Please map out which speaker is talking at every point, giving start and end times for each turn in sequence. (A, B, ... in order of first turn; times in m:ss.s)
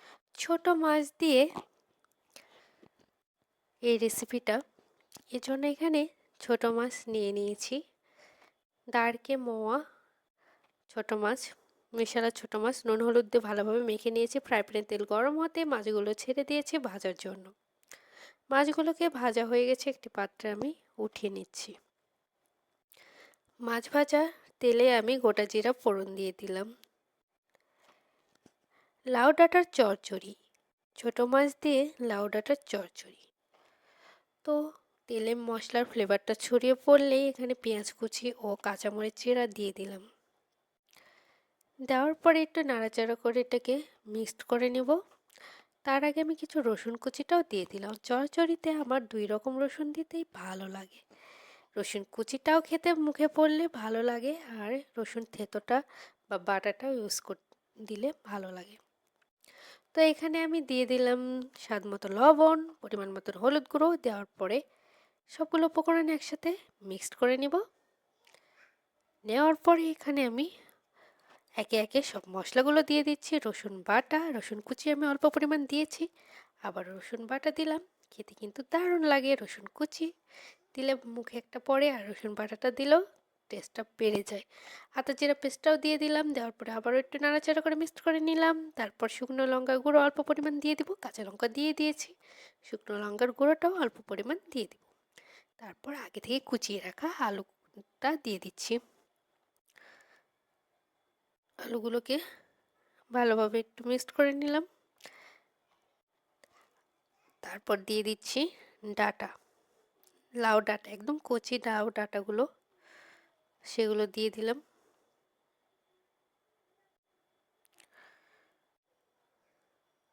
0:00.4-0:01.4 A
0:03.9-0:04.6 A
0:05.3-0:07.8 A
0:09.0-0:09.8 A
0:10.9-0:11.4 A
0:12.0-0:17.5 A
0:18.5-0:21.7 A
0:23.7-0:26.7 A
0:29.1-0:30.3 A
0:31.0-0:33.2 A
0:35.1-0:40.0 A
0:41.9-0:45.0 A
0:45.9-0:51.0 A
0:51.8-0:55.8 A
0:56.3-0:58.8 A
0:59.9-1:04.6 A
1:05.3-1:07.6 A
1:09.3-1:10.5 A
1:11.6-1:16.1 A
1:16.7-1:20.1 A
1:20.7-1:23.0 A
1:23.5-1:24.4 A
1:25.0-1:32.1 A
1:32.7-1:34.8 A
1:35.6-1:37.5 A
1:38.0-1:38.8 A
1:41.7-1:42.2 A
1:43.1-1:44.6 A
1:47.4-1:48.4 A
1:49.0-1:49.3 A
1:50.4-1:52.4 A
1:53.7-1:54.6 A